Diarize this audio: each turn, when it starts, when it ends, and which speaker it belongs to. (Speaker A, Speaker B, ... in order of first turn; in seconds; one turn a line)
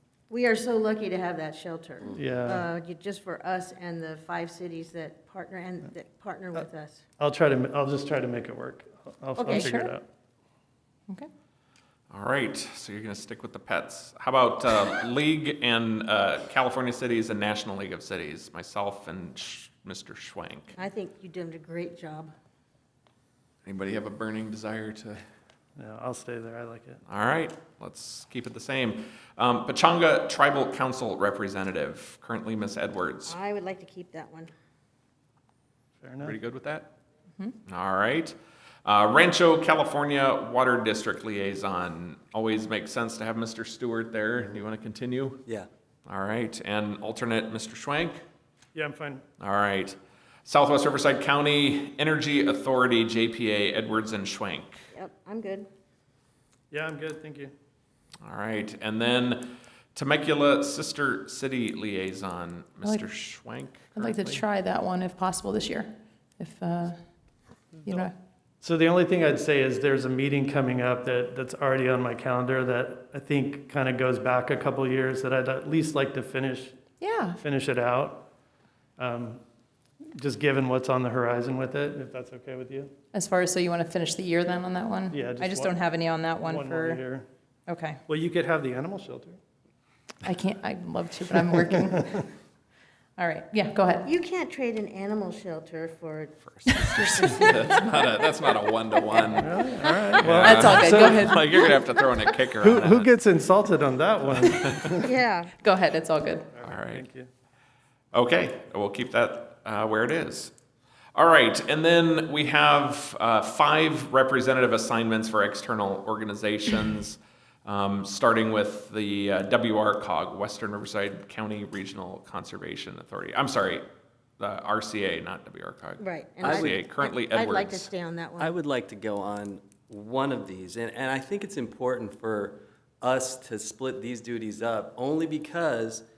Speaker A: 0.3-7.0
Speaker B: 2.1-2.7
Speaker B: 7.2-10.1
Speaker A: 9.4-9.7
Speaker C: 9.5-9.9
Speaker D: 12.1-20.8
Speaker A: 20.8-22.3
Speaker D: 23.6-25.2
Speaker B: 25.8-27.0
Speaker D: 27.1-33.4
Speaker A: 33.3-34.5
Speaker B: 36.0-36.4
Speaker D: 36.2-36.9
Speaker D: 37.7-45.4
Speaker D: 46.1-48.2
Speaker B: 48.8-49.2
Speaker D: 49.4-54.8
Speaker A: 54.9-55.7
Speaker B: 56.7-57.5
Speaker D: 58.2-64.4
Speaker C: 62.8-63.1
Speaker C: 64.0-67.0
Speaker C: 67.8-68.1
Speaker B: 68.6-76.8
Speaker C: 77.0-77.4
Speaker B: 77.4-78.3
Speaker B: 79.0-79.4
Speaker B: 80.2-82.9
Speaker C: 83.1-87.0
Speaker B: 85.1-85.8
Speaker B: 86.4-87.3
Speaker C: 87.7-88.0
Speaker B: 88.1-89.4
Speaker C: 90.2-92.3
Speaker C: 93.2-94.1
Speaker A: 94.0-98.0
Speaker D: 96.5-103.1
Speaker A: 99.1-100.4
Speaker B: 99.3-101.4
Speaker C: 100.4-101.7
Speaker B: 102.6-105.1
Speaker D: 104.6-105.0
Speaker A: 105.0-105.5
Speaker C: 105.6-106.5
Speaker B: 106.5-107.3
Speaker D: 106.7-107.0
Speaker D: 108.1-110.5
Speaker D: 111.2-123.8
Speaker D: 124.4-127.9
Speaker A: 126.0-128.5
Speaker E: 126.4-126.8
Speaker E: 128.4-136.0